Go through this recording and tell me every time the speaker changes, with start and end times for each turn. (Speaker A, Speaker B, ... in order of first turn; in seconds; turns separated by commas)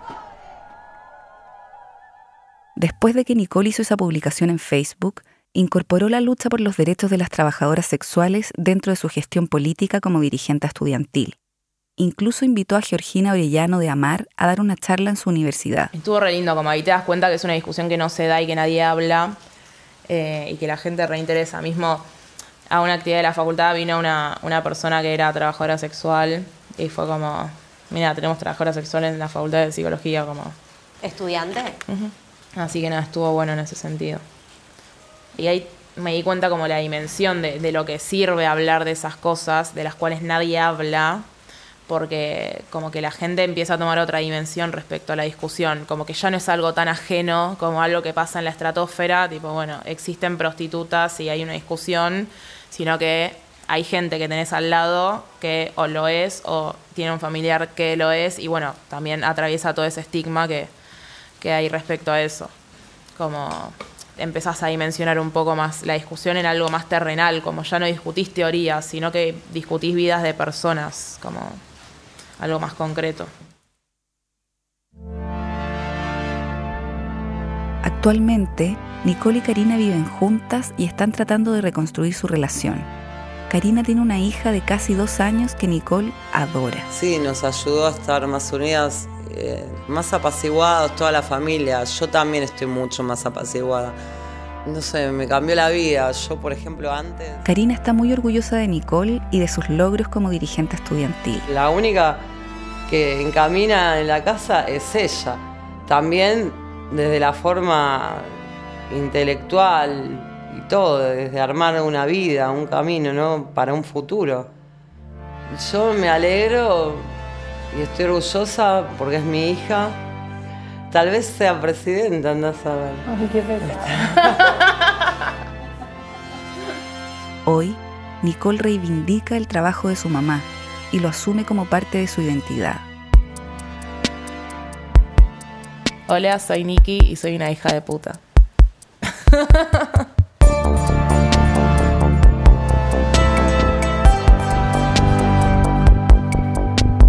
Speaker A: 2.8-11.4, Speaker A: 12.0-15.9, Speaker B: 15.9-19.4, Speaker B: 20.1-22.0, Speaker B: 22.7-30.6, Speaker B: 31.9-34.2, Speaker B: 35.4-41.2, Speaker B: 41.9-60.7, Speaker B: 61.4-62.5, Speaker B: 63.2-71.6, Speaker B: 72.4-73.3, Speaker A: 77.8-82.9, Speaker A: 83.5-86.9, Speaker C: 86.9-94.0, Speaker C: 94.7-97.5, Speaker A: 97.4-101.5, Speaker C: 101.5-102.2, Speaker C: 102.9-114.5, Speaker C: 115.5-117.1, Speaker C: 117.7-120.0, Speaker C: 120.9-124.3, Speaker A: 127.5-132.9, Speaker B: 136.1-138.2, Speaker B: 139.0-140.1